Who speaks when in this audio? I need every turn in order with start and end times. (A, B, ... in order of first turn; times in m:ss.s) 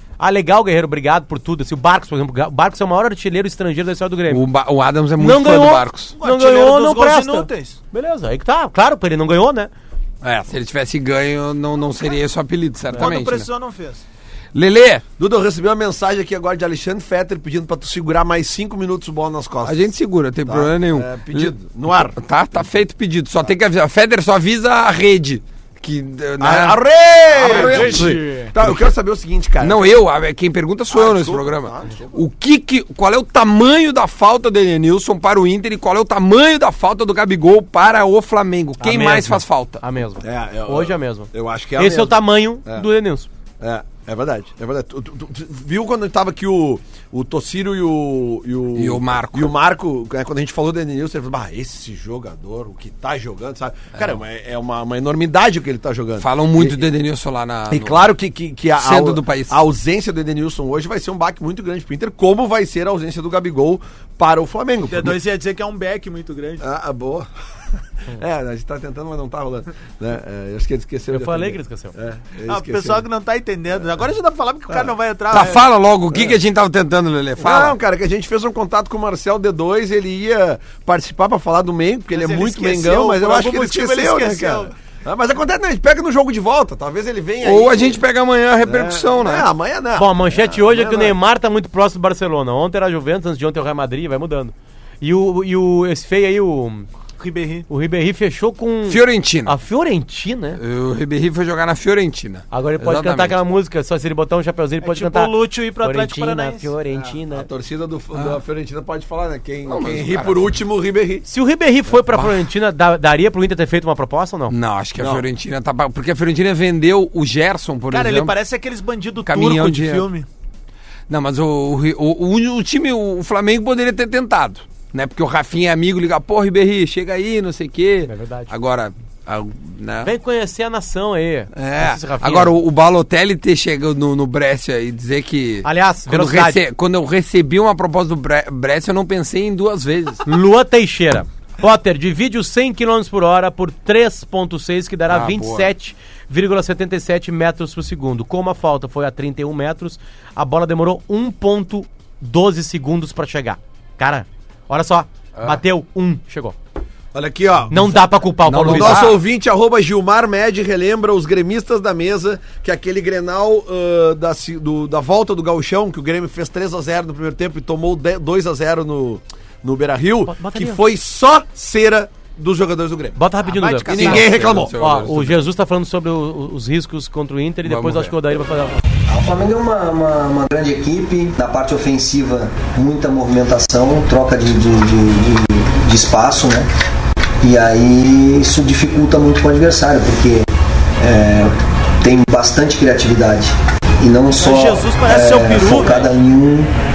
0:00.2-0:04.4 A
0:04.3-0:06.1 B
0:05.2-0:09.7 A
0:06.2-0:07.8 C
0:10.2-0:13.5 B
0:12.9-0:14.0 C
0:14.5-0:15.0 B
0:15.2-0:19.8 D
0:19.6-0:28.8 B
0:20.4-0:22.2 D
0:26.4-0:30.0 D
0:27.5-0:28.4 A
0:29.6-0:39.8 B
0:30.9-0:32.2 D
0:38.8-0:43.3 A
0:40.2-0:42.9 D
0:43.6-0:56.9 D
0:48.8-0:49.5 B
0:56.2-0:58.1 B
0:57.7-1:05.2 D
0:58.8-0:59.6 B
1:04.9-1:06.6 C
1:06.6-1:07.3 D
1:08.0-1:13.0 D
1:11.1-1:11.9 A
1:12.5-1:15.6 C
1:15.3-1:17.8 B
1:16.1-1:16.4 D
1:17.4-1:28.0 D
1:22.1-1:24.7 C
1:27.4-1:29.5 B
1:28.6-1:31.2 D
1:30.0-1:36.9 A
1:37.2-1:37.7 C
1:37.7-1:40.6 A
1:38.9-1:39.5 B
1:40.6-1:43.4 B
1:42.5-1:47.5 A
1:44.8-1:46.7 C
1:46.9-1:51.2 D
1:49.6-1:50.5 B
1:51.2-1:54.5 A
1:52.1-1:52.4 B
1:54.5-1:58.4 B
1:55.0-1:55.2 D
1:57.9-2:00.3 C
1:59.2-2:00.1 B
2:01.1-2:10.1 B
2:08.1-2:08.5 A
2:10.0-2:12.5 A
2:11.5-2:20.2 B
2:15.6-2:16.6 A
2:20.2-2:36.6 A
2:25.1-2:25.7 B
2:35.4-2:35.6 B
2:37.1-2:53.2 D
2:37.7-2:39.1 A
2:38.4-2:39.2 B
2:50.2-2:50.8 A
2:53.2-2:58.8 A
2:53.4-2:54.3 C
2:53.8-2:54.8 D
2:53.9-2:55.4 B
2:57.6-2:58.1 B
2:59.1-3:06.7 E
3:07.4-3:10.5 E
3:11.0-3:16.7 E
3:14.4-3:16.1 C